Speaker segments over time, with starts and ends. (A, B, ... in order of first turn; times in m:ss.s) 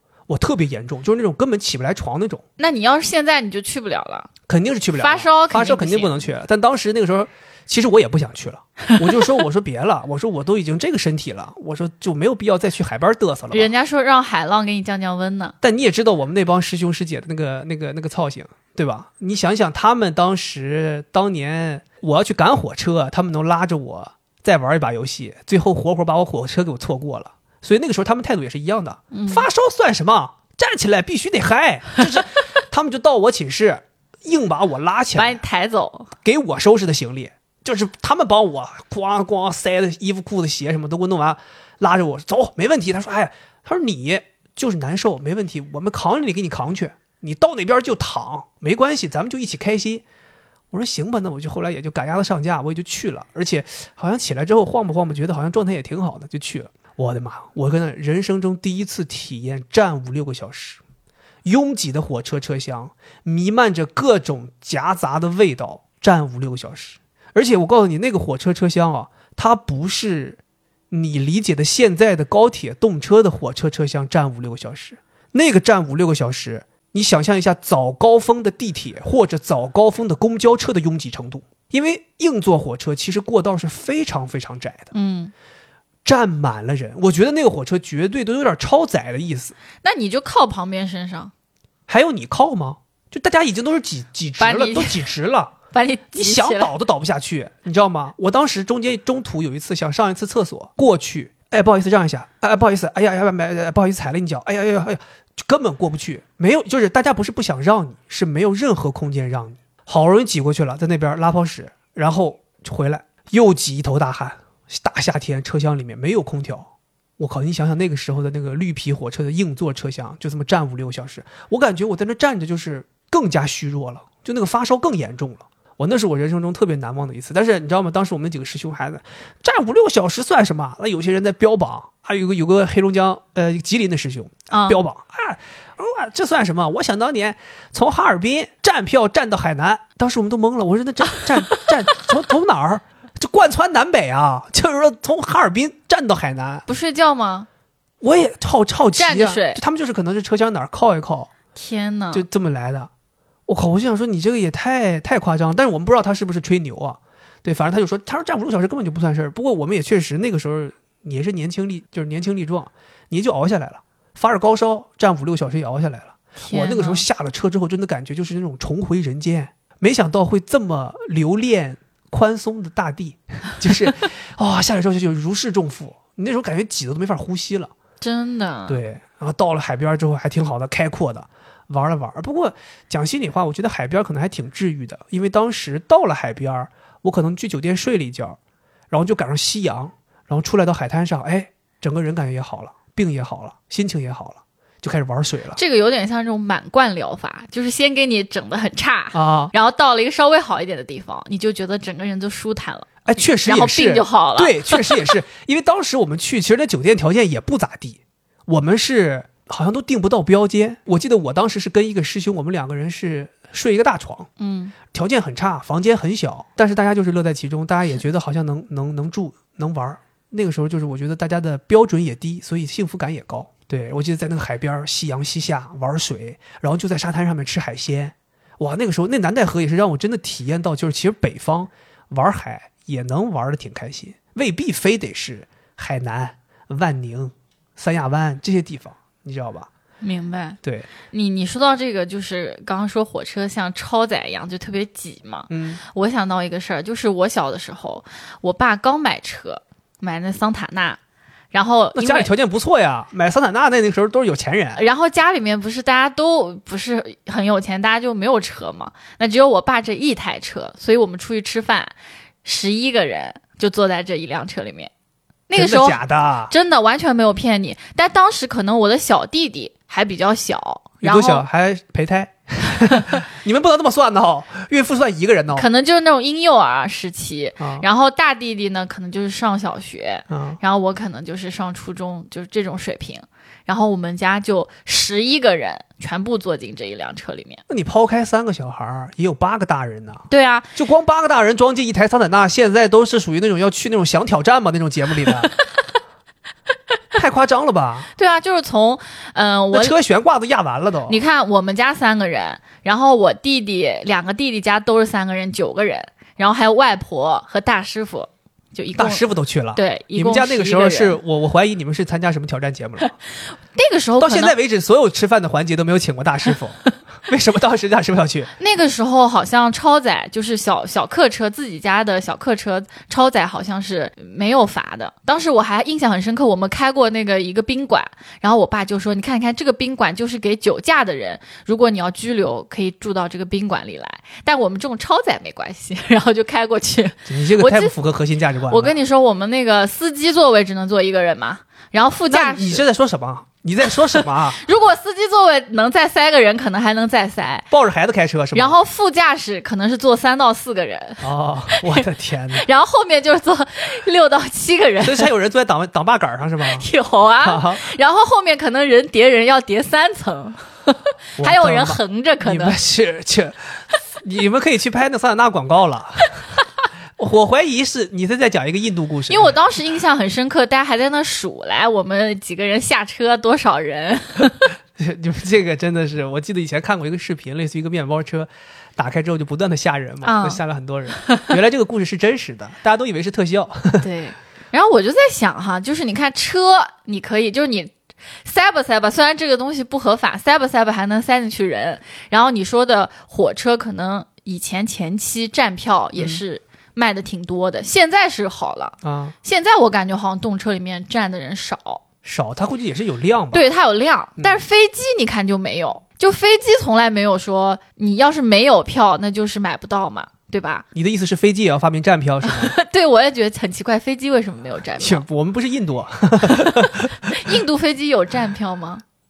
0:00.3-0:02.4 A
0:02.6-0:04.3 B
0:04.5-0:13.7 A
0:05.0-0:06.2 B
0:13.5-0:15.6 B
0:15.6-0:35.4 A
0:29.1-0:29.5 B
0:35.2-0:36.1 B
0:36.2-0:50.0 A
0:50.7-1:00.8 A
1:01.4-1:10.4 A
1:10.9-1:24.9 A
1:24.9-1:25.3 B
1:26.0-1:29.6 A
1:29.8-1:31.3 B
1:31.9-1:35.5 A
1:34.4-1:35.1 B
1:35.7-1:36.7 B
1:36.1-2:26.6 A
2:14.5-2:14.8 B
2:26.7-2:27.5 B
2:28.0-2:31.3 A
2:29.0-2:29.6 B
2:31.6-2:32.2 B
2:32.1-2:32.9 A
2:33.5-2:57.7 A
2:46.4-2:47.1 B
2:58.0-2:58.8 B
2:58.7-3:08.4 A
3:08.9-3:15.6 A
3:15.6-3:22.9 B
3:19.1-3:19.5 A
3:23.1-3:34.3 A
3:23.4-3:25.2 B
3:34.4-3:34.8 B
3:34.9-3:59.7 A
4:00.0-4:11.0 B
4:00.6-4:00.9 A
4:05.5-4:05.8 A
4:11.5-4:12.3 B
4:11.9-4:14.8 A
4:14.8-4:24.9 B
4:25.5-4:31.5 B
4:25.6-4:26.5 A
4:31.0-4:35.7 A
4:35.5-4:47.6 B
4:37.6-4:37.9 A
4:40.3-4:40.6 A
4:47.7-4:55.6 A
4:50.3-4:50.8 B
4:57.2-4:58.1 A
4:58.2-5:00.0 B
4:59.7-5:01.2 A
5:01.1-5:09.2 B
5:09.0-5:13.2 A
5:09.8-5:11.2 B
5:13.7-5:14.6 B
5:14.2-5:18.5 A
5:18.6-5:37.9 B
5:37.3-5:39.0 A
5:38.7-5:42.8 B
5:42.3-5:44.6 A
5:44.1-5:47.7 B
5:47.7-5:48.8 A
5:48.5-5:55.3 B
5:51.2-5:52.7 A
5:55.0-5:56.9 A
5:56.6-6:02.8 B
5:57.4-5:57.8 A
6:01.4-6:06.6 A
6:07.2-6:09.6 A
6:09.3-6:14.7 B
6:15.0-6:24.1 A
6:20.2-6:20.6 B
6:21.2-6:21.5 B
6:24.0-6:27.9 B
6:28.4-6:42.0 B
6:36.2-6:36.4 A
6:39.0-6:39.4 A
6:42.2-6:43.6 A
6:43.5-6:50.8 B
6:51.0-6:52.8 A
6:52.4-6:55.3 B
6:55.0-6:57.6 A
6:56.5-6:59.0 B